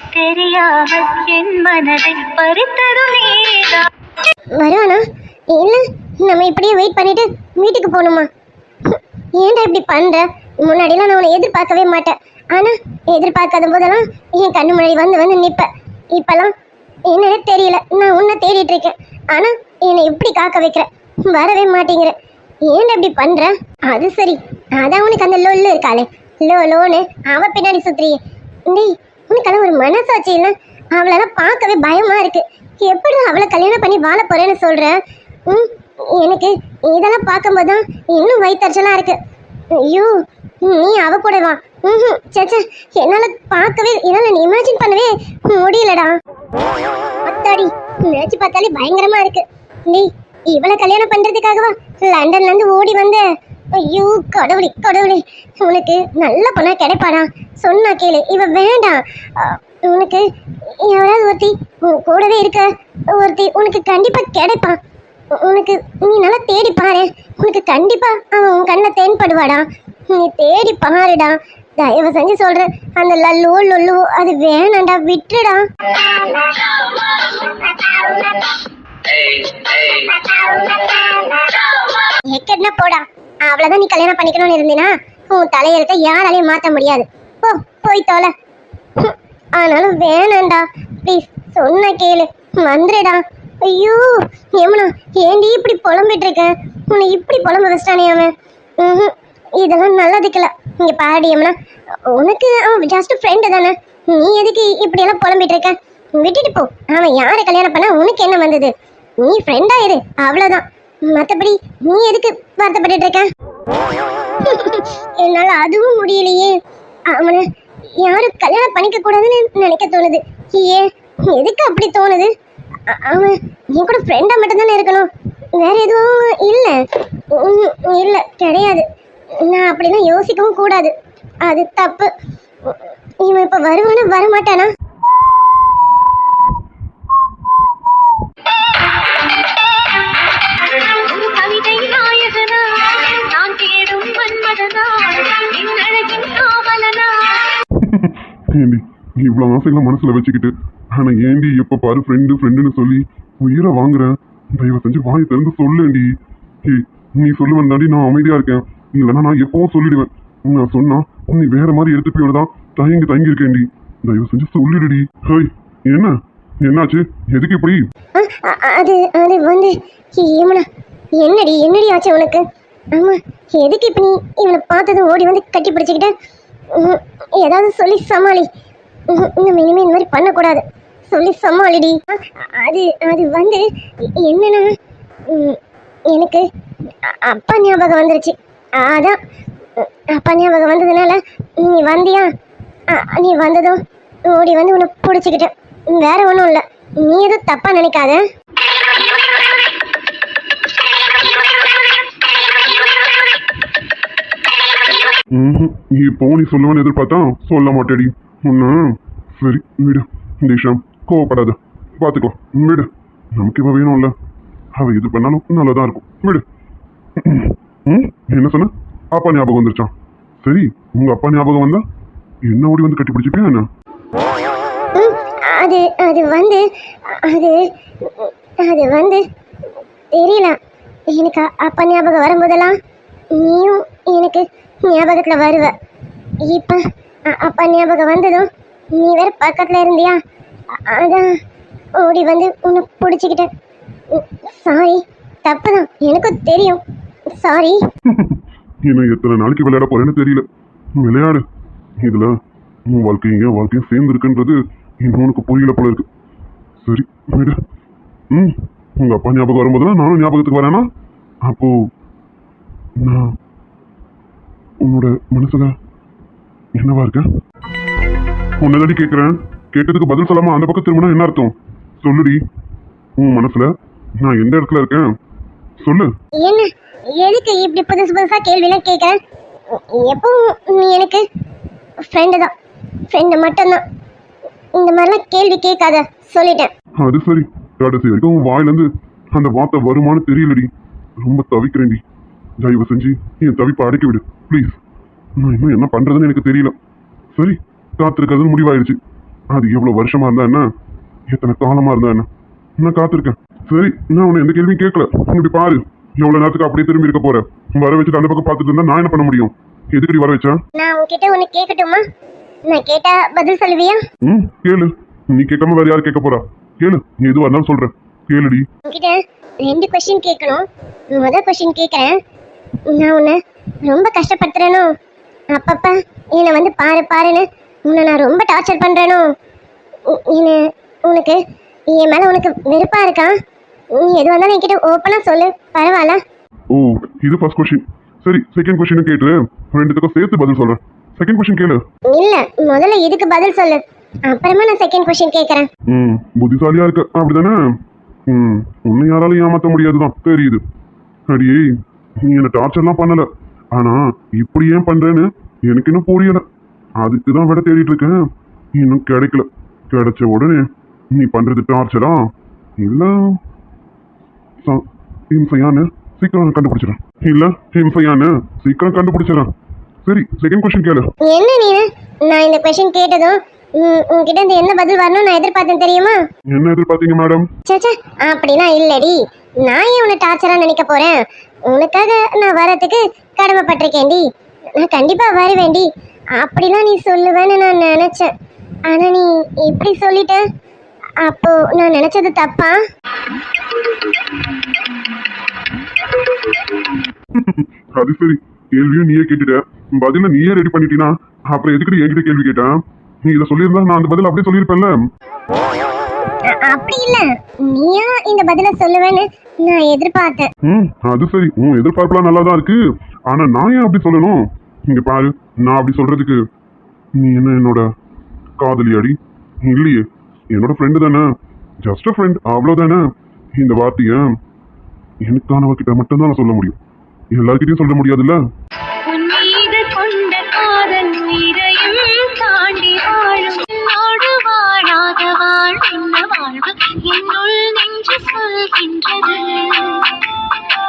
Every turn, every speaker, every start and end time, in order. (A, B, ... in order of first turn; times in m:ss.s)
0:00.1-0:03.9 A
0:04.6-0:08.3 B
0:08.9-0:16.5 B
0:17.1-0:22.1 B
0:22.6-0:35.0 B
0:35.5-0:39.2 B
0:39.8-0:40.1 B
0:40.6-0:46.2 B
0:47.2-0:53.2 B
0:53.7-1:04.8 B
1:05.4-1:28.3 B
1:29.0-1:38.3 B
1:38.8-1:41.6 B
1:42.1-1:53.3 B
1:54.4-1:56.6 B
1:57.1-1:57.5 B
1:58.0-2:02.3 B
2:02.9-2:06.8 B
2:07.3-2:08.8 B
2:09.4-2:10.9 B
2:11.4-2:12.1 B
2:12.7-2:14.7 B
2:21.0-2:27.6 A
2:27.8-2:47.8 C
2:48.2-2:50.7 B
2:51.2-2:52.4 B
2:53.0-2:56.1 B
2:56.7-2:58.5 B
2:59.1-3:03.6 B
3:04.2-3:04.7 B
3:05.3-3:05.6 B
3:06.1-3:06.4 B
3:07.0-3:09.2 B
3:09.8-3:12.3 B
3:12.9-3:18.2 B
3:25.3-3:34.2 C
3:34.8-3:36.4 C
3:37.2-3:39.9 C
3:40.4-3:41.8 C
3:42.5-3:43.7 C
3:45.0-3:49.2 B
3:50.2-3:50.6 B
3:51.1-3:52.8 B
3:53.3-3:55.7 B
3:56.5-4:00.2 B
4:00.9-4:01.4 B
4:02.0-4:03.5 B
4:04.1-4:06.8 B
4:07.4-4:07.8 B
4:08.1-4:10.5 C
4:11.0-4:11.4 C
4:12.0-4:12.4 C
4:12.9-4:16.1 C
4:16.8-4:17.6 C
4:18.3-4:20.9 C
4:21.4-4:21.8 C
4:23.0-4:23.4 C
4:24.8-4:25.8 C
4:26.8-4:27.3 C
4:28.6-4:32.4 C
4:33.2-4:33.7 C
4:34.2-4:35.1 C
4:35.8-4:36.1 C
4:36.4-4:39.2 B
4:39.7-4:41.2 B
4:42.1-4:42.5 B
4:43.1-4:43.8 B
4:44.8-4:46.7 B
4:47.0-4:50.7 C
4:51.2-4:52.0 C
4:52.6-4:54.8 C
4:55.4-4:56.8 C
4:57.4-4:59.0 C
4:59.5-5:00.7 C
5:01.3-5:02.3 C
5:02.8-5:10.6 C
5:10.8-5:12.0 B
5:12.7-5:14.0 B
5:14.2-5:18.7 C
5:18.8-5:22.2 B
5:22.9-5:24.9 B
5:25.5-5:29.2 B
5:30.1-5:31.4 B
5:31.9-5:33.3 B
5:34.0-5:36.2 B
5:36.7-5:41.8 C
5:42.1-5:45.7 B
5:45.9-5:47.6 C
5:48.3-5:50.6 C
5:51.3-5:56.4 C
5:57.0-6:02.2 C
6:02.8-6:03.4 C
6:04.6-6:09.5 C
6:10.0-6:11.1 C
6:11.3-6:16.2 B
6:16.5-6:17.5 C
6:17.7-6:21.2 B
6:21.7-6:24.2 B
6:24.8-6:28.3 B
6:28.9-6:30.4 B
6:31.2-6:32.8 B
6:37.4-6:45.0 C
6:46.5-6:50.5 B
6:50.6-6:56.4 C
6:57.2-6:57.9 C
6:58.6-7:01.3 C
7:01.8-7:04.3 C
7:05.2-7:06.8 C
7:07.3-7:08.4 C
7:09.1-7:20.3 A